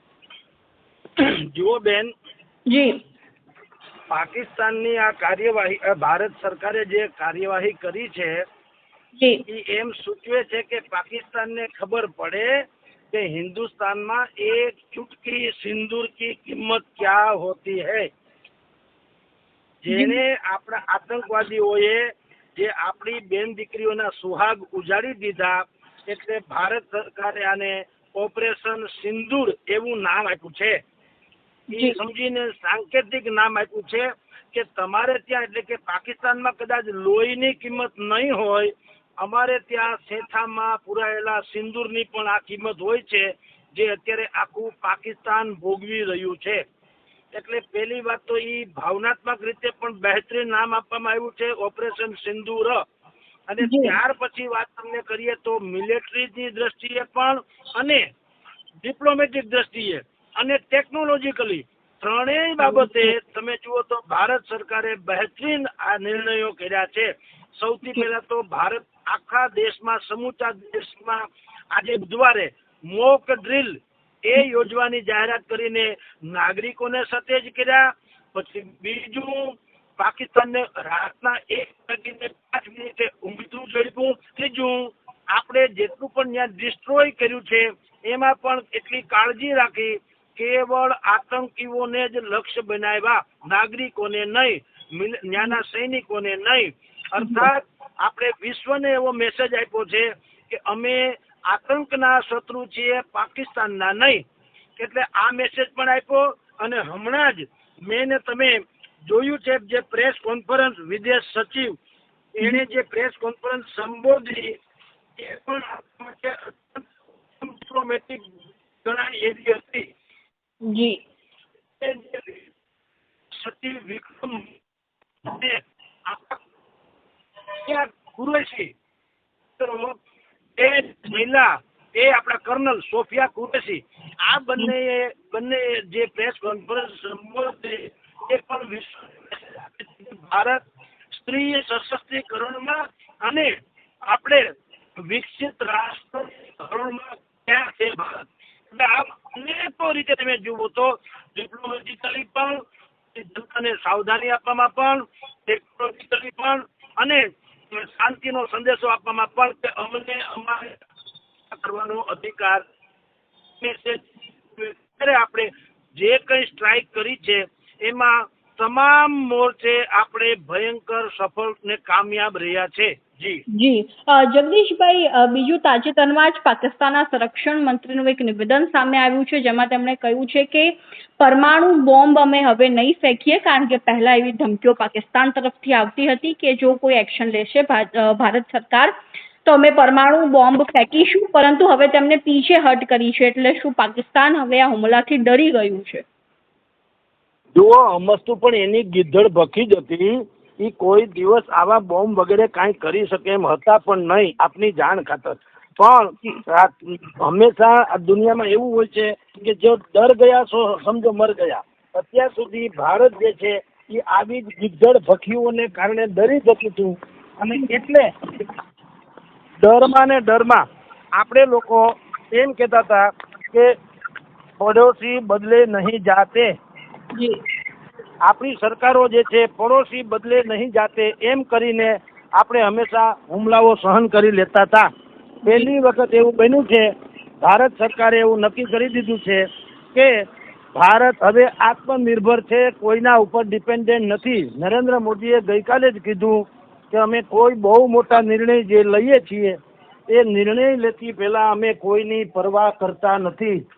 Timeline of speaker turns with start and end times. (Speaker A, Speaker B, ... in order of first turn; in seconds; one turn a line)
Speaker A: 1.2-2.1
Speaker B: 2.7-3.0
Speaker A: 4.1-8.4
Speaker B: 9.2-9.4
Speaker A: 9.5-12.6
Speaker A: 13.1-18.1
Speaker A: 19.8-30.8
Speaker B: 19.9-20.2
Speaker B: 31.7-32.0
Speaker A: 31.7-46.6
Speaker A: 47.3-52.8
Speaker A: 53.5-58.0
Speaker B: 53.6-54.0
Speaker A: 58.8-104.2
Speaker B: 62.6-63.1
Speaker B: 97.2-97.5
Speaker A: 104.8-111.7
Speaker A: 112.3-114.5
Speaker A: 115.2-118.2
Speaker A: 118.8-119.9
Speaker B: 120.6-121.0
Speaker A: 121.8-122.5
Speaker A: 123.3-124.6
Speaker A: 125.2-126.4
Speaker A: 127.7-128.7
Speaker A: 129.6-129.9
Speaker A: 130.6-143.5
Speaker A: 144.1-144.4
Speaker A: 145.0-152.6
Speaker A: 153.1-160.8
Speaker A: 161.5-162.6
Speaker A: 163.6-164.0
Speaker A: 164.5-173.4
Speaker B: 173.5-196.1
Speaker A: 197.6-218.1
Speaker A: 219.6-220.6
Speaker A: 221.2-223.7
Speaker A: 224.6-226.5
Speaker A: 228.2-234.9
Speaker A: 235.5-236.9
Speaker A: 237.4-240.1
Speaker A: 240.7-249.6
Speaker A: 250.1-253.6